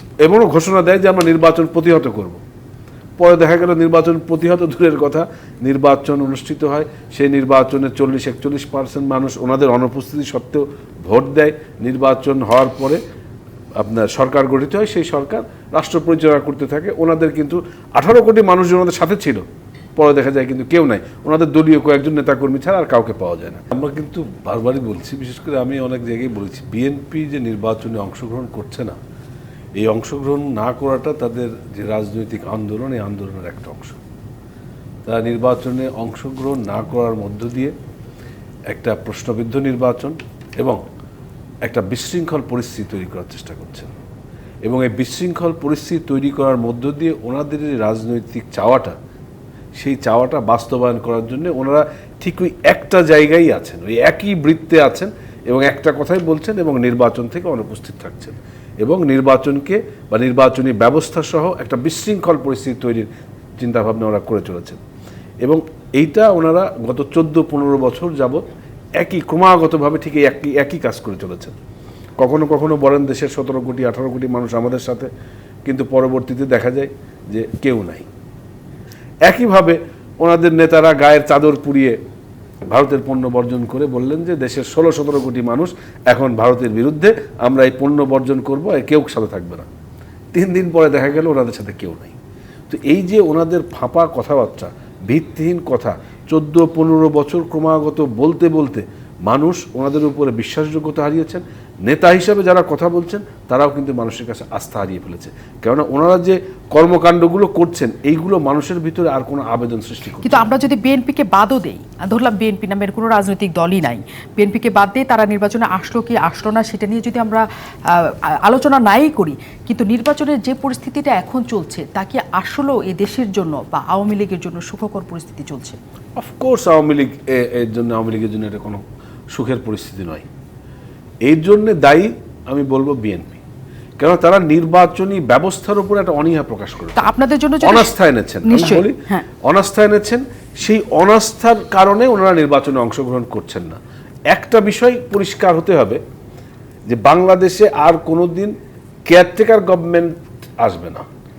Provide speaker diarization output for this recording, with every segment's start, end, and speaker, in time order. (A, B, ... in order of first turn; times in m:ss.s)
0:00.2-0:02.4 A
0:03.2-0:13.0 A
0:13.8-0:19.4 A
0:20.0-0:29.0 A
0:29.8-0:34.0 A
0:35.1-0:37.7 A
0:38.7-0:40.8 A
0:41.6-0:43.9 A
0:44.6-0:49.0 A
0:49.8-1:03.1 A
1:03.6-1:04.8 A
1:05.4-1:08.4 A
1:09.0-1:11.6 A
1:12.2-1:15.1 A
1:15.7-1:18.1 A
1:19.3-1:22.0 A
1:22.7-1:29.7 A
1:30.3-1:32.2 A
1:32.7-1:50.5 A
1:50.2-2:05.8 B
2:06.2-2:08.8 A
2:09.3-2:10.3 A
2:11.2-2:13.4 A
2:14.0-2:17.1 A
2:17.0-2:17.9 B
2:17.6-2:23.8 A
2:18.4-2:19.3 B
2:24.3-2:26.0 A
2:26.9-2:28.5 A
2:29.1-2:31.0 A